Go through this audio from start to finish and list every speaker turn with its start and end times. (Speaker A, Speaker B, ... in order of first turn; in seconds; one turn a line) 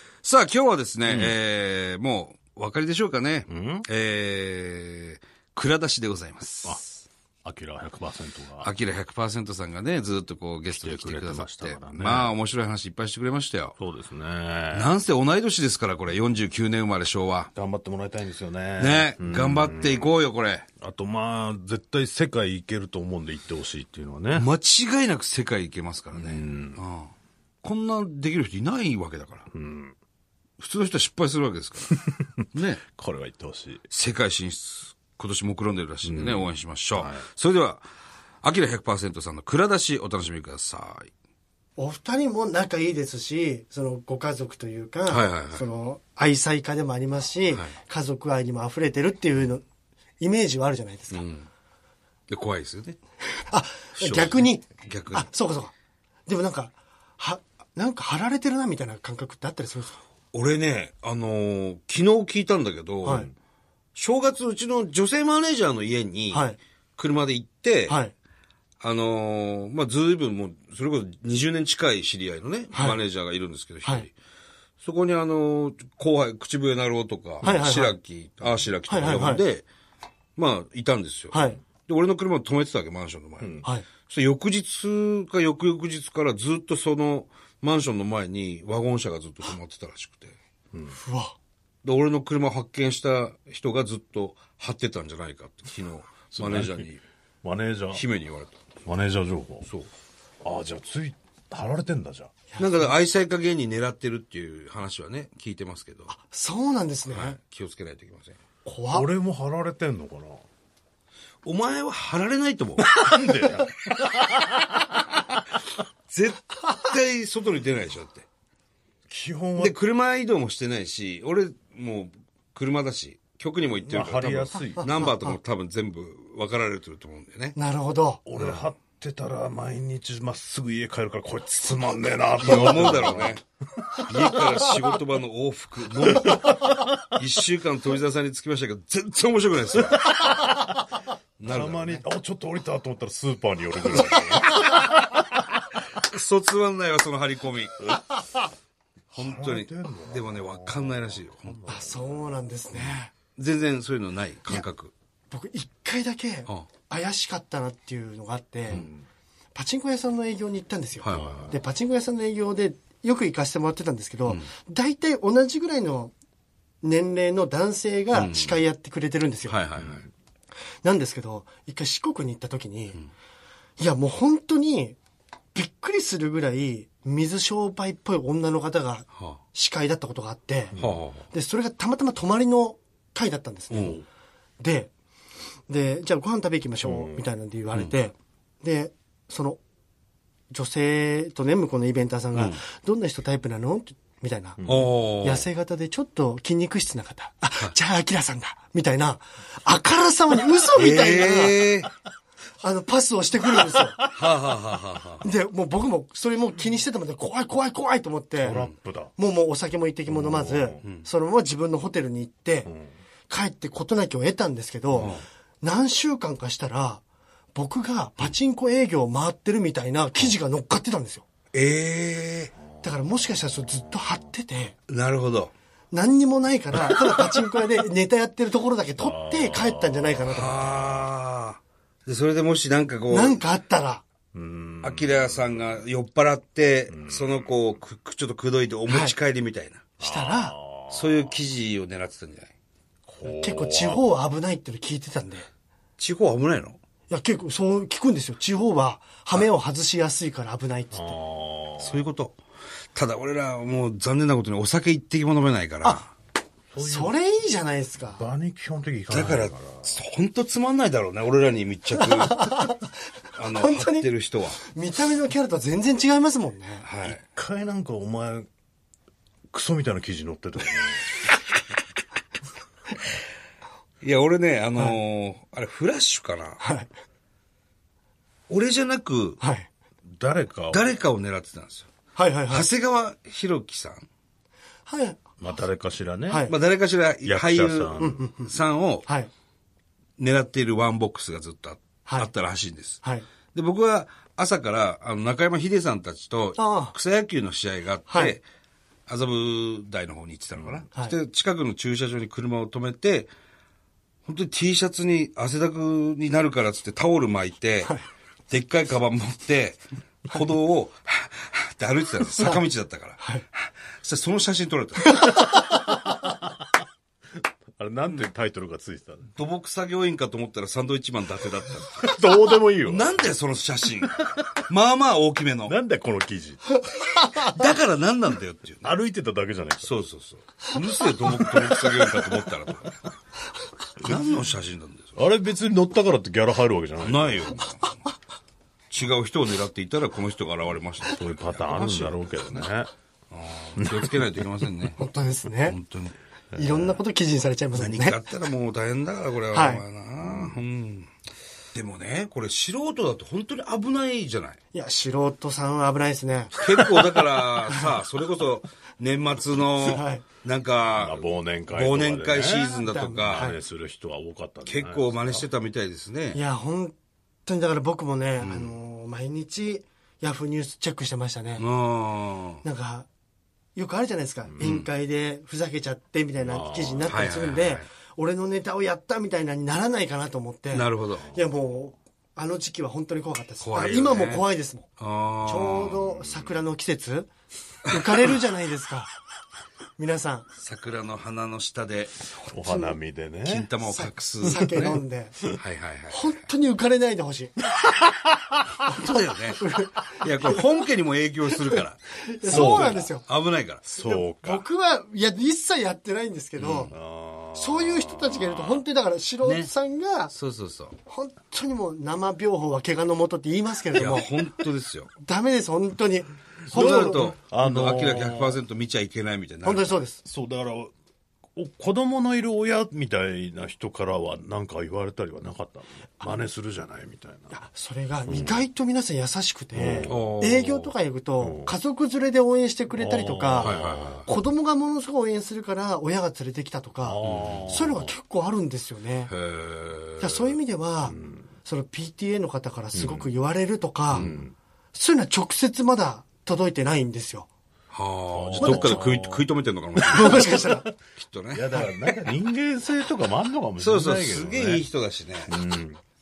Speaker A: 0.2-6.8
Speaker B: 1.1-1.3
Speaker B: 3.5-3.9
Speaker B: 6.6-6.9
Speaker B: 7.4-8.7
Speaker A: 8.6-13.8
Speaker B: 10.7-12.3
Speaker B: 13.8-14.9
Speaker A: 14.7-17.5
Speaker B: 17.5-20.1
Speaker A: 18.8-20.7
Speaker B: 20.8-24.5
Speaker A: 24.3-27.1
Speaker B: 26.1-26.8
Speaker A: 27.6-29.5
Speaker B: 29.5-29.9
Speaker A: 30.6-31.9
Speaker A: 32.5-32.8
Speaker B: 33.0-33.8
Speaker A: 33.9-37.8
Speaker B: 36.0-37.2
Speaker A: 38.4-41.1
Speaker C: 41.8-49.6
Speaker A: 45.1-45.6
Speaker C: 50.2-51.2
Speaker A: 51.1-51.5
Speaker A: 52.3-53.0
Speaker C: 53.4-55.7
Speaker A: 54.0-55.3
Speaker C: 56.3-60.0
Speaker A: 60.3-63.3
Speaker C: 63.0-63.3
Speaker A: 63.9-68.0
Speaker C: 66.3-66.6
Speaker C: 67.9-68.1
Speaker A: 68.8-74.1
Speaker C: 72.7-73.0
Speaker A: 74.8-79.7
Speaker C: 77.4-78.0
Speaker C: 78.9-79.4
Speaker A: 80.3-90.3
Speaker C: 81.3-81.6
Speaker C: 91.0-91.3
Speaker A: 91.8-97.0
Speaker B: 96.3-96.9
Speaker B: 97.4-98.0
Speaker A: 97.9-98.6
Speaker B: 98.8-99.7
Speaker A: 99.6-99.9
Speaker B: 100.4-102.3
Speaker A: 102.6-106.1
Speaker C: 106.1-107.4
Speaker A: 107.1-108.4
Speaker C: 108.6-109.1
Speaker B: 108.9-110.4
Speaker A: 111.4-113.1
Speaker B: 112.9-115.0
Speaker A: 116.1-118.2
Speaker B: 119.1-119.8
Speaker A: 119.5-127.6
Speaker B: 123.9-124.9
Speaker C: 125.0-125.3
Speaker C: 127.5-128.2
Speaker B: 128.2-133.4
Speaker A: 128.3-128.6
Speaker A: 132.4-133.4
Speaker A: 134.1-140.2
Speaker B: 136.1-136.6
Speaker B: 139.9-140.9
Speaker A: 141.4-142.0
Speaker B: 141.4-145.6
Speaker A: 145.9-147.9
Speaker B: 149.1-152.5
Speaker A: 149.1-151.6
Speaker C: 151.7-153.1
Speaker A: 153.3-154.9
Speaker C: 155.3-158.8
Speaker B: 158.7-159.1
Speaker C: 159.5-166.1
Speaker A: 161.0-161.6
Speaker B: 161.1-161.6
Speaker C: 166.8-169.6
Speaker A: 168.1-168.6
Speaker A: 169.5-170.1
Speaker B: 169.8-170.0
Speaker C: 170.8-173.0
Speaker C: 173.8-175.0
Speaker C: 175.5-180.7
Speaker B: 180.7-181.0
Speaker A: 180.8-181.2
Speaker C: 181.3-184.0
Speaker A: 183.7-184.0
Speaker C: 184.6-184.9
Speaker C: 185.7-189.6
Speaker B: 186.8-187.2
Speaker C: 190.5-194.6
Speaker A: 192.3-192.6
Speaker B: 194.6-194.9
Speaker A: 194.7-195.4
Speaker C: 195.2-201.6
Speaker A: 200.7-201.9
Speaker C: 202.6-204.0
Speaker A: 204.1-205.3
Speaker C: 205.2-208.6
Speaker B: 208.4-209.1
Speaker A: 208.4-208.7
Speaker C: 209.2-212.7
Speaker B: 210.1-210.8
Speaker A: 210.8-211.1
Speaker B: 212.7-212.9
Speaker C: 213.3-217.0
Speaker B: 214.9-215.2
Speaker A: 214.9-215.2
Speaker C: 217.5-221.2
Speaker A: 221.5-222.5
Speaker B: 222.7-224.2
Speaker C: 222.8-224.8
Speaker A: 224.9-225.5
Speaker C: 225.9-230.8
Speaker B: 229.0-231.0
Speaker A: 230.3-233.4
Speaker C: 233.1-234.0
Speaker B: 234.3-235.8
Speaker A: 234.8-239.8
Speaker B: 236.9-237.8
Speaker C: 238.9-239.1
Speaker C: 240.0-240.5
Speaker B: 240.0-241.3
Speaker A: 240.9-242.5
Speaker B: 243.1-244.0
Speaker C: 243.2-245.5
Speaker A: 246.0-246.8
Speaker C: 247.1-251.1
Speaker B: 250.9-252.0
Speaker A: 251.8-252.4
Speaker A: 252.9-256.1
Speaker B: 256.7-257.2
Speaker C: 256.8-258.2
Speaker B: 258.1-260.0
Speaker A: 259.1-262.5
Speaker C: 262.0-262.9
Speaker A: 263.3-264.6
Speaker C: 263.5-264.1
Speaker C: 264.7-266.9
Speaker A: 266.8-267.2
Speaker B: 267.0-268.5
Speaker B: 269.5-271.1
Speaker A: 274.0-276.6
Speaker C: 276.6-276.9
Speaker A: 278.5-279.4
Speaker C: 279.4-279.7
Speaker B: 280.1-280.9
Speaker A: 280.7-281.9
Speaker C: 282.1-282.7
Speaker A: 282.5-284.1
Speaker C: 284.9-285.2
Speaker B: 285.4-286.5
Speaker C: 286.3-286.6
Speaker A: 286.5-289.0
Speaker B: 287.2-288.2
Speaker C: 288.0-288.5
Speaker A: 290.2-293.0
Speaker A: 293.5-298.4
Speaker C: 296.6-296.9
Speaker C: 298.1-298.4
Speaker A: 299.1-303.3
Speaker A: 304.2-307.9
Speaker A: 308.5-315.3
Speaker C: 315.0-315.9
Speaker B: 317.8-319.3
Speaker A: 319.3-322.1
Speaker B: 321.9-323.2
Speaker A: 322.8-325.8
Speaker B: 325.7-326.8
Speaker C: 327.1-327.4
Speaker A: 327.2-328.9
Speaker B: 328.8-330.0
Speaker A: 329.8-333.0
Speaker B: 332.0-332.9
Speaker A: 334.0-335.2
Speaker B: 335.2-337.5
Speaker A: 337.0-338.0
Speaker A: 338.9-342.6
Speaker B: 341.1-342.9
Speaker A: 343.3-345.0
Speaker B: 343.8-344.2
Speaker C: 345.0-345.8
Speaker A: 345.6-346.1
Speaker B: 346.5-346.9
Speaker C: 346.5-348.2
Speaker A: 347.7-351.1
Speaker C: 349.5-349.8
Speaker B: 350.2-350.6
Speaker A: 351.7-354.6
Speaker C: 354.7-357.9
Speaker A: 356.5-363.5
Speaker C: 359.9-360.2
Speaker B: 360.9-365.5
Speaker C: 362.7-363.6
Speaker A: 364.6-366.4
Speaker C: 366.3-366.9
Speaker C: 367.5-371.6
Speaker A: 368.4-368.7
Speaker A: 371.6-372.6
Speaker C: 372.6-373.1
Speaker C: 373.8-384.9
Speaker B: 374.5-374.8
Speaker A: 374.6-374.9
Speaker B: 376.4-377.2
Speaker A: 377.1-377.9
Speaker A: 380.7-381.3
Speaker A: 383.6-384.4
Speaker A: 385.0-386.0
Speaker C: 385.4-387.3
Speaker B: 385.9-386.6
Speaker C: 387.9-389.1
Speaker C: 390.0-390.4
Speaker A: 390.6-392.2
Speaker C: 392.5-393.0
Speaker B: 392.5-393.7
Speaker A: 393.4-395.0
Speaker C: 393.8-395.5
Speaker B: 394.4-395.6
Speaker A: 395.6-396.2
Speaker C: 396.1-397.6
Speaker A: 398.8-403.8
Speaker C: 398.9-400.8
Speaker C: 401.7-403.2
Speaker B: 402.5-403.1
Speaker B: 403.8-404.6
Speaker C: 404.0-406.9
Speaker A: 406.6-406.9
Speaker B: 406.9-408.7
Speaker C: 407.5-410.3
Speaker A: 409.4-409.7
Speaker A: 410.3-410.9
Speaker C: 411.1-414.3
Speaker A: 413.9-415.1
Speaker C: 415.2-417.4
Speaker B: 416.7-418.6
Speaker A: 416.7-420.0
Speaker C: 419.6-420.2
Speaker B: 420.2-420.9
Speaker B: 421.6-427.5
Speaker C: 427.5-439.3
Speaker B: 428.3-428.6
Speaker B: 429.7-430.2
Speaker A: 430.1-430.9
Speaker B: 431.4-431.7
Speaker B: 432.9-434.2
Speaker A: 433.6-434.3
Speaker B: 437.0-438.1
Speaker A: 437.2-437.8
Speaker A: 439.3-440.5
Speaker C: 440.2-444.3
Speaker B: 441.0-441.5
Speaker B: 442.9-443.3
Speaker A: 444.1-444.4
Speaker B: 444.1-444.5
Speaker C: 444.9-447.5
Speaker A: 447.9-450.5
Speaker B: 448.3-450.9
Speaker C: 448.6-449.0
Speaker C: 450.1-450.9
Speaker A: 451.2-452.1
Speaker B: 451.5-454.8
Speaker A: 453.8-455.5
Speaker B: 455.5-456.0